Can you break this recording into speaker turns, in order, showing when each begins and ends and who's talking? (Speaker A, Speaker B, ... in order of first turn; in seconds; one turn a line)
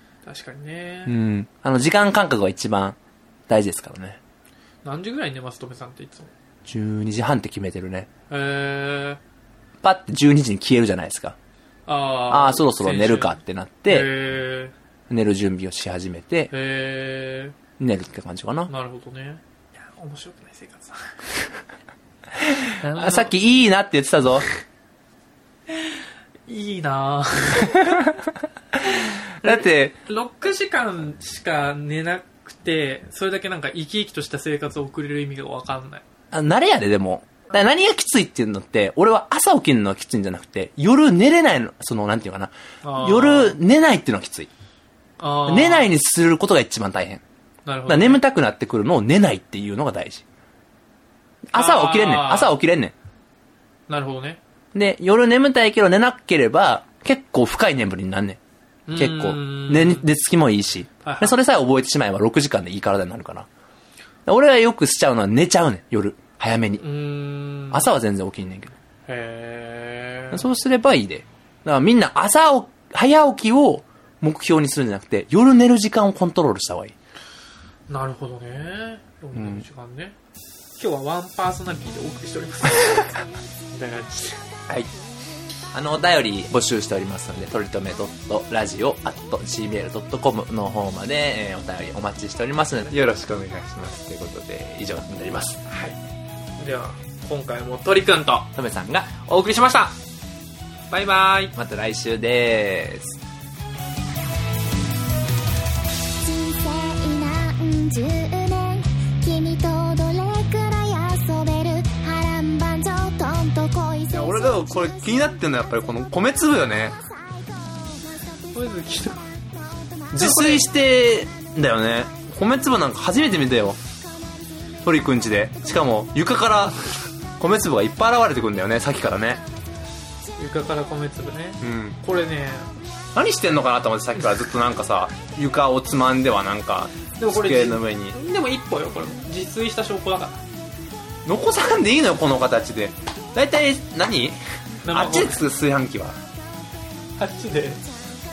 Speaker A: 0.2-1.1
Speaker B: 1.1-3.0
Speaker B: 3.5-4.2
Speaker A: 4.8-6.3
Speaker B: 6.7-8.1
Speaker A: 8.3-9.2
Speaker B: 9.8-11.3
Speaker A: 11.9-14.7
Speaker B: 12.3-14.1
Speaker B: 15.1-16.5
Speaker A: 16.5-17.6
Speaker B: 17.8-18.7
Speaker A: 18.7-21.1
Speaker B: 22.5-24.5
Speaker A: 22.8-23.3
Speaker A: 25.7-28.1
Speaker B: 27.6-28.1
Speaker B: 28.7-29.9
Speaker A: 29.4-36.0
Speaker B: 36.3-44.5
Speaker A: 42.8-43.6
Speaker A: 45.2-45.9
Speaker B: 45.5-47.2
Speaker A: 47.6-48.2
Speaker B: 47.9-50.2
Speaker B: 51.5-52.9
Speaker A: 51.5-52.5
Speaker A: 53.9-54.4
Speaker B: 54.7-58.4
Speaker A: 58.9-60.1
Speaker B: 59.0-63.5
Speaker A: 61.0-61.4
Speaker B: 64.2-66.8
Speaker A: 66.8-67.9
Speaker B: 67.7-68.7
Speaker A: 69.1-70.4
Speaker B: 70.3-76.9
Speaker A: 77.9-80.1
Speaker B: 79.3-79.6
Speaker A: 80.8-84.4
Speaker B: 85.7-95.6
Speaker A: 95.7-96.0
Speaker A: 96.6-98.5
Speaker B: 98.5-100.0
Speaker A: 100.9-101.5
Speaker B: 101.5-103.2
Speaker C: 106.2-115.4
Speaker B: 114.1-117.0
Speaker C: 116.9-120.6
Speaker A: 118.5-119.2
Speaker B: 120.1-123.8
Speaker A: 120.2-120.6
Speaker C: 124.0-125.7
Speaker B: 124.8-126.8
Speaker B: 127.4-129.4
Speaker A: 130.3-132.7
Speaker B: 131.6-132.0
Speaker B: 133.1-138.2
Speaker A: 137.2-140.4
Speaker B: 141.2-144.4
Speaker A: 144.8-145.4
Speaker B: 144.9-146.2
Speaker A: 147.2-147.8